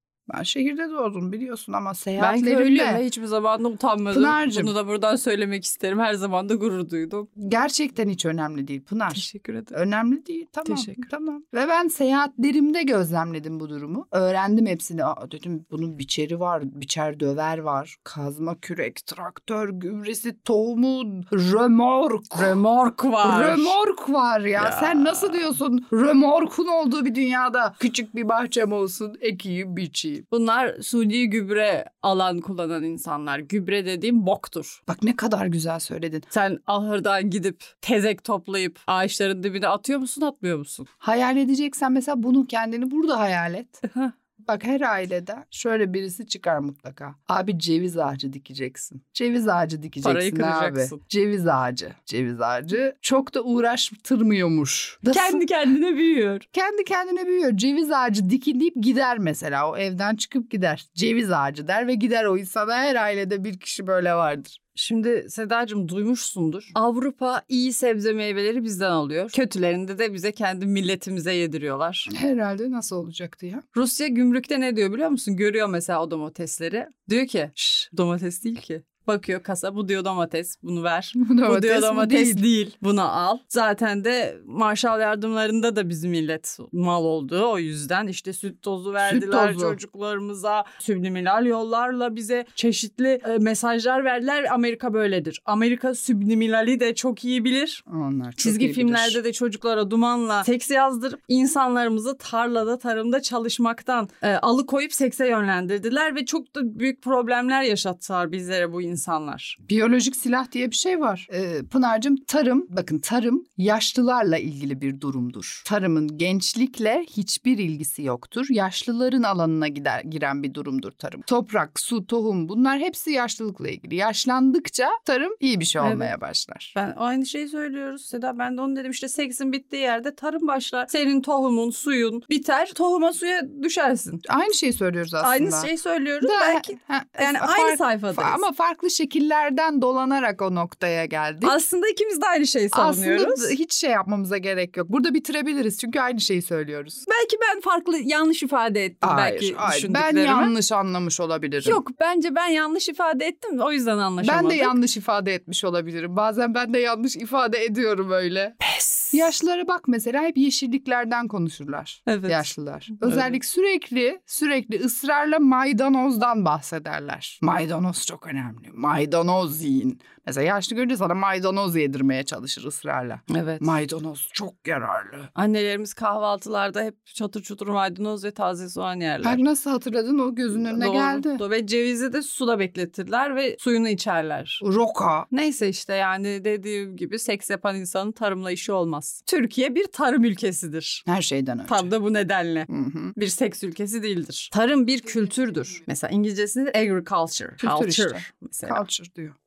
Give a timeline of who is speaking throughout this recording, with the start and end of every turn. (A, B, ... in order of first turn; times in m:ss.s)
0:00.3-0:03.0 A
0:02.2-0:07.3 B
0:04.1-0:04.7 A
0:07.4-0:22.6 A
0:09.1-0:09.7 B
0:10.7-0:11.0 B
0:22.4-0:23.8 B
0:23.2-0:30.2 A
0:24.6-0:25.6 B
0:30.3-0:34.8 B
0:34.9-0:36.2 A
0:36.3-0:40.9 B
0:41.0-0:43.8 A
0:44.4-0:55.4 A
0:50.0-0:51.0 B
0:55.1-0:56.4 B
0:56.5-1:04.6 A
1:04.8-1:12.1 B
1:12.1-1:13.6 A
1:13.7-1:37.8 B
1:21.2-1:22.4 A
1:29.0-1:29.8 A
1:37.9-1:39.2 A
1:38.4-1:49.6 B
1:49.6-2:06.7 A
2:05.8-2:06.1 B
2:06.7-2:14.2 B
2:14.3-2:15.7 A
2:15.2-2:18.4 B
2:16.2-2:21.6 A
2:21.4-2:23.5 B
2:22.7-2:27.0 A
2:27.1-2:30.5 B
2:29.0-2:31.8 A
2:31.6-2:34.8 B
2:34.2-2:38.6 A
2:38.6-2:39.2 B
2:39.1-2:55.3 A
2:42.1-2:43.4 B
2:53.3-2:53.8 B
2:55.3-2:59.4 B
2:59.2-3:01.4 A
3:00.5-3:04.6 B
3:04.6-3:05.3 A
3:05.3-3:11.0 B
3:11.1-3:11.9 A
3:11.7-3:18.8 B
3:12.7-3:13.1 A
3:17.6-3:19.4 A